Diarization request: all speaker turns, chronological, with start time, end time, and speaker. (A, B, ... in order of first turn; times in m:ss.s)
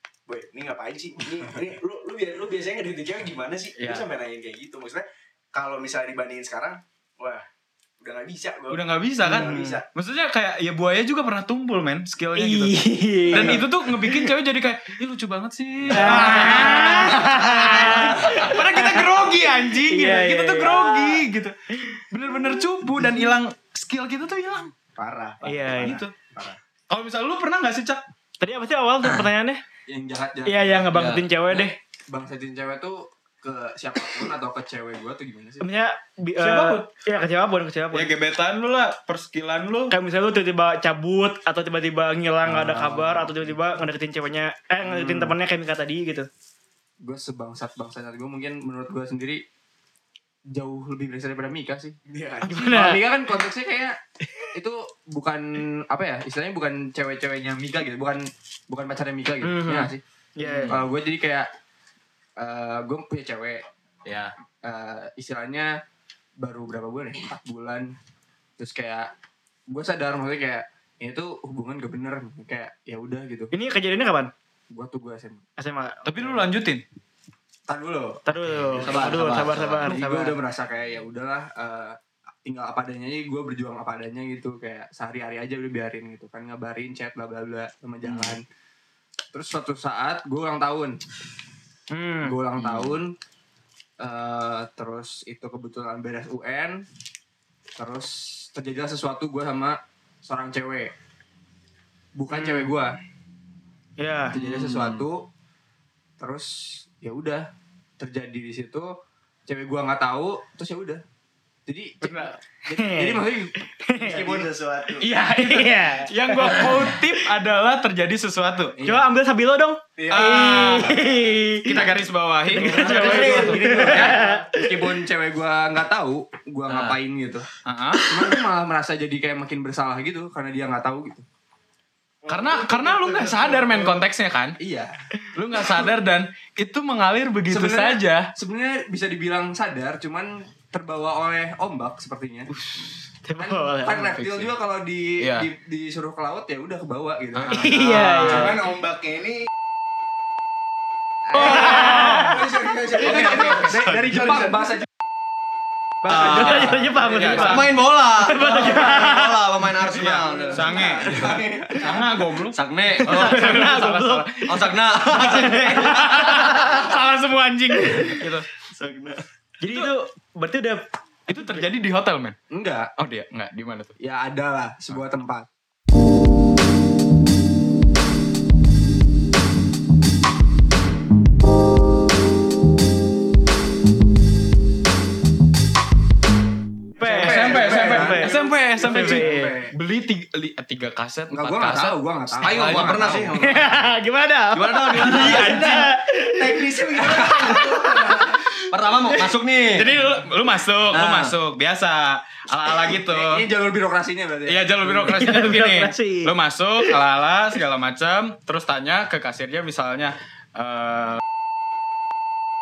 0:00.3-0:07.4 A
0:03.8-0:04.0 B
0:08.0-0:09.8 A
0:08.7-0:12.8 B
0:09.3-0:09.7 C
0:12.4-0:14.1 C
0:13.3-0:24.7 B
0:15.9-0:19.1 C
0:19.9-0:21.2 C
0:25.0-0:26.6 A
0:25.4-0:26.0 C
0:25.8-0:26.1 B
0:26.9-0:28.0 B
0:28.4-0:29.6 C
0:29.9-0:30.9 D
0:30.4-0:31.8 C
0:30.9-0:31.2 E
0:31.5-0:35.6 D
0:35.6-0:38.1 C
0:36.4-0:36.9 B
0:37.9-0:39.9 B
0:39.9-0:46.3 C
0:42.5-0:43.1 D
0:44.8-0:45.3 D
0:47.0-0:49.4 D
0:50.5-0:54.0 D
0:52.1-0:52.7 A
0:52.4-0:53.0 C
0:54.5-1:00.0 D
0:59.4-1:00.8 C
1:00.4-1:00.8 B
1:00.7-1:01.5 D
1:02.4-1:03.6 D
1:04.0-1:04.3 B
1:04.6-1:05.7 D
1:06.4-1:07.9 D
1:08.6-1:09.1 D
1:09.7-1:13.5 D
1:13.5-1:14.3 C
1:14.7-1:15.4 D
1:15.6-1:16.0 C
1:16.0-1:16.8 B
1:17.7-1:18.2 D
1:18.2-1:20.4 C
1:18.8-1:19.9 E
1:18.8-1:28.4 D
1:28.0-1:28.3 B
1:29.3-1:31.0 D
1:31.9-1:32.4 C
1:32.2-1:33.1 D
1:32.6-1:32.9 B
1:34.0-1:36.8 D
1:37.8-1:40.9 D
1:42.1-1:42.9 D
1:42.3-1:42.7 C
1:44.0-1:44.4 C
1:44.3-1:45.2 D
1:44.4-1:45.0 B
1:46.2-1:47.5 D
1:48.0-1:48.9 D
1:49.5-1:51.0 D
1:51.6-1:54.5 D
1:52.0-1:52.3 B
1:52.7-1:54.2 C
1:54.0-1:55.1 A
1:55.0-1:57.0 C
1:55.4-1:58.8 B
1:58.8-2:01.8 C
2:00.0-2:01.0 A
2:00.1-2:01.0 B
2:01.6-2:04.1 B
2:02.5-2:04.6 C
2:02.6-2:07.5 D
2:02.8-2:04.2 A
2:06.6-2:07.0 B
2:07.6-2:08.2 B
2:08.1-2:11.2 D
2:12.2-2:13.9 A
2:12.3-2:14.6 B
2:14.6-2:14.9 D
2:15.3-2:18.3 B
2:17.5-2:22.5 D
2:22.8-2:24.2 C
2:23.4-2:27.7 D
2:24.2-2:24.5 B
2:25.2-2:25.5 B
2:27.3-2:28.6 B
2:27.5-2:28.6 C
2:28.2-2:29.5 A
2:31.3-2:32.2 D
2:31.3-2:33.7 A
2:31.4-2:32.4 C
2:33.1-2:34.1 B
2:33.1-2:34.8 D
2:36.0-2:37.6 C
2:36.1-2:37.8 B
2:36.1-2:37.3 D
2:37.4-2:41.4 E
2:38.2-2:39.3 C
2:39.9-2:48.5 B
2:41.0-2:41.8 D
2:41.0-2:41.4 A
2:42.5-2:43.6 E
2:43.0-2:46.7 C
2:44.5-2:46.0 E
2:49.6-2:51.6 C
2:49.7-2:49.9 B
2:51.3-2:52.4 B
2:52.5-2:52.9 D
2:53.0-2:54.0 B
2:54.0-2:55.5 D
3:07.0-3:08.3 C
3:07.0-3:09.7 D
3:07.1-3:13.3 B
3:07.4-3:08.2 A
3:08.8-3:09.6 C
3:11.3-3:13.4 D
3:12.4-3:13.7 E
3:13.3-3:18.0 C
3:14.5-3:15.7 E
3:15.0-3:18.4 A
3:15.1-3:15.4 B
3:17.0-3:17.3 D
3:18.7-3:19.9 E
3:19.8-3:23.5 B
3:20.9-3:21.3 E
3:23.0-3:25.2 D
3:24.5-3:31.2 B
3:25.2-3:26.3 C